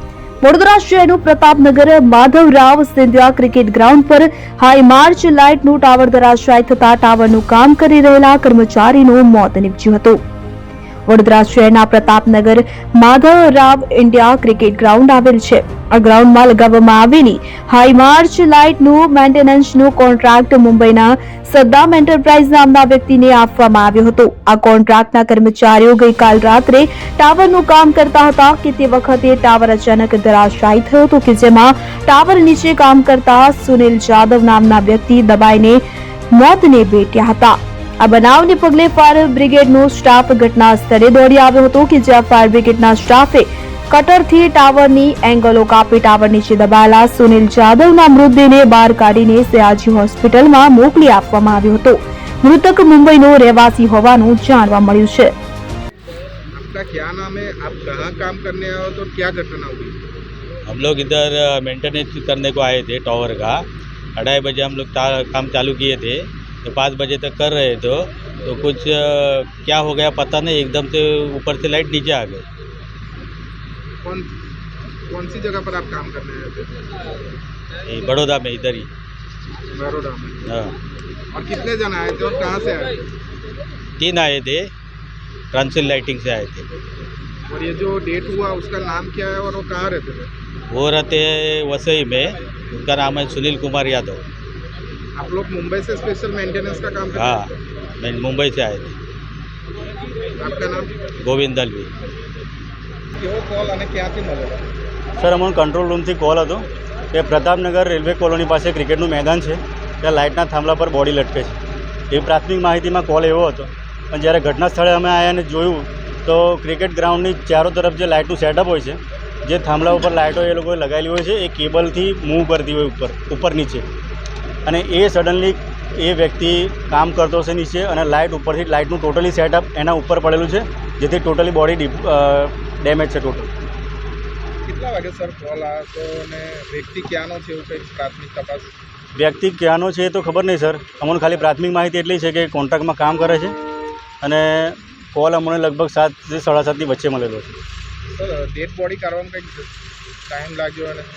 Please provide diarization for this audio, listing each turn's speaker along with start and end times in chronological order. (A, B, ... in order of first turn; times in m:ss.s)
0:00.4-0:10.2 A
0:11.1-0:35.8 A
0:36.3-0:55.3 A
0:56.5-1:00.0 B
1:00.7-1:03.6 C
1:04.2-1:12.4 C
1:14.0-1:14.3 B
1:15.1-1:16.7 B
1:17.8-1:18.9 C
1:19.7-1:20.4 B
1:20.5-1:20.7 C
1:21.3-1:23.0 B
1:24.0-1:24.7 C
1:25.5-1:26.7 C
1:27.5-1:30.3 B
1:30.7-1:34.2 C
1:35.2-1:37.5 B
1:37.1-1:39.0 C
1:40.4-1:40.9 B
1:41.2-1:41.9 C
1:43.2-1:44.6 B
1:45.2-1:51.6 D
1:52.1-2:03.8 D
2:04.7-2:13.5 D
2:14.6-2:18.7 B
2:19.2-2:23.5 D
2:24.2-2:27.6 D
2:28.1-2:31.1 B